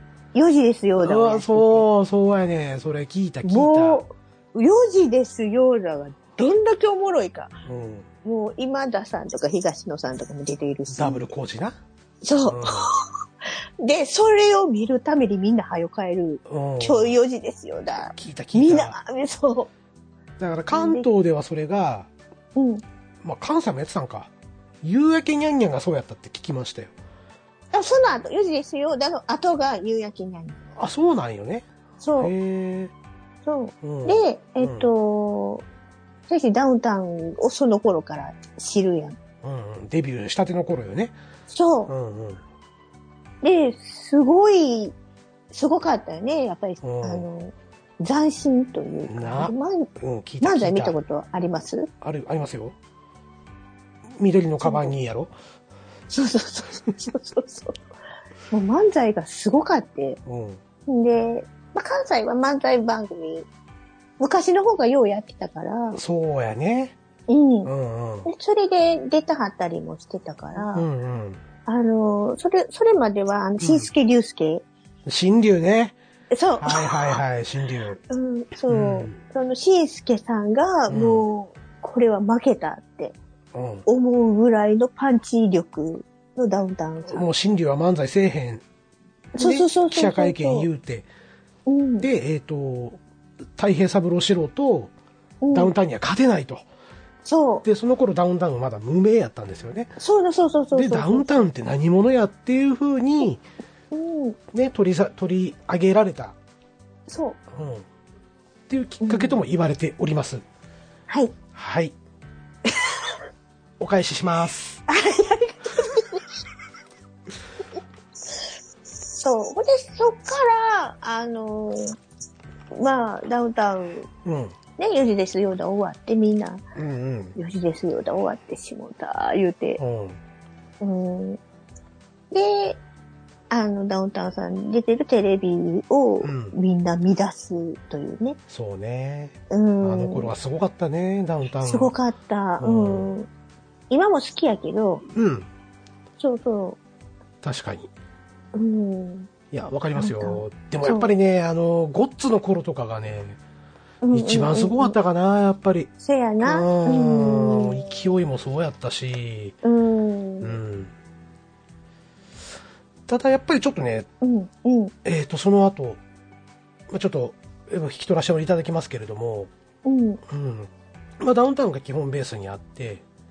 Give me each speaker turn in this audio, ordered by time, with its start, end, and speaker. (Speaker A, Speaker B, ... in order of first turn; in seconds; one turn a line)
Speaker A: 0.3-1.9
Speaker B: 1.0-4.0
Speaker A: 3.4-7.6
Speaker B: 7.6-8.1
Speaker A: 8.2-11.3
Speaker B: 10.9-11.8
Speaker A: 12.2-13.1
Speaker B: 12.4-12.9
Speaker A: 13.8-19.7
Speaker B: 16.5-17.1
Speaker B: 18.1-19.0
Speaker B: 20.4-22.1
Speaker A: 20.7-21.1
Speaker A: 22.5-22.8
Speaker B: 23.2-24.3
Speaker B: 24.8-26.9
Speaker A: 27.7-30.6
Speaker B: 30.8-31.7
Speaker A: 32.0-32.3
Speaker B: 32.2-32.9
Speaker A: 33.4-35.6
Speaker B: 33.8-34.9
Speaker A: 36.3-39.2
Speaker B: 39.4-41.1
Speaker A: 41.5-41.9
Speaker B: 41.9-42.4
Speaker A: 43.4-44.9
Speaker A: 45.5-49.9
Speaker B: 46.8-47.2
Speaker B: 49.1-51.0
Speaker A: 50.4-51.9
Speaker B: 52.0-52.8
Speaker B: 54.2-55.3
Speaker A: 54.6-55.0
Speaker A: 56.1-57.8
Speaker A: 58.5-60.2
Speaker B: 60.2-60.6
Speaker A: 60.9-63.5
Speaker A: 64.2-66.0
Speaker B: 65.9-66.9
Speaker A: 67.3-67.7
Speaker B: 67.6-68.3
Speaker A: 68.2-70.9
Speaker B: 70.6-71.4
Speaker A: 71.7-74.6
Speaker B: 73.6-73.9
Speaker B: 75.0-76.0
Speaker A: 76.3-77.1
Speaker B: 76.6-78.0
Speaker A: 78.1-83.2
Speaker B: 78.7-79.2
Speaker B: 80.9-81.2
Speaker B: 83.5-83.8
Speaker A: 83.8-87.3
Speaker B: 87.1-88.6
Speaker A: 89.3-90.7
Speaker B: 89.4-91.1
Speaker A: 91.7-92.1
Speaker B: 92.0-93.0
Speaker B: 93.6-94.9
Speaker A: 95.4-95.7
Speaker B: 95.5-96.6
Speaker A: 97.2-97.7
Speaker B: 97.6-100.0
Speaker A: 100.0-101.5
Speaker B: 100.7-103.4
Speaker A: 103.9-104.4
Speaker B: 104.5-106.3
Speaker A: 107.1-107.4
Speaker B: 107.5-107.8
Speaker B: 108.7-110.4
Speaker A: 109.0-109.4
Speaker A: 111.1-111.3
Speaker B: 111.5-111.9
Speaker B: 113.8-114.8
Speaker A: 114.9-116.2
Speaker A: 119.2-122.0
Speaker A: 122.7-124.1
Speaker B: 124.2-124.5
Speaker A: 124.8-126.6
Speaker B: 126.7-127.3
Speaker A: 127.3-129.8
Speaker B: 129.8-130.2
Speaker A: 130.8-131.4
Speaker A: 132.3-132.8
Speaker A: 133.5-138.4
Speaker B: 136.2-136.6
Speaker B: 138.5-141.9
Speaker A: 139.5-140.3
Speaker A: 141.6-143.3
Speaker B: 142.6-143.1
Speaker A: 143.9-145.0
Speaker B: 145.1-145.5
Speaker A: 146.2-146.8
Speaker B: 147.4-147.9
Speaker A: 148.5-149.3
Speaker B: 149.5-153.4
Speaker A: 149.9-151.1
Speaker A: 154.0-154.9
Speaker B: 154.1-159.6
Speaker A: 156.0-157.8
Speaker A: 159.6-160.6
Speaker B: 160.4-160.9
Speaker B: 163.1-164.1
Speaker A: 164.2-164.9
Speaker B: 165.0-166.0
Speaker B: 166.9-169.5
Speaker A: 169.8-170.2
Speaker B: 170.2-173.0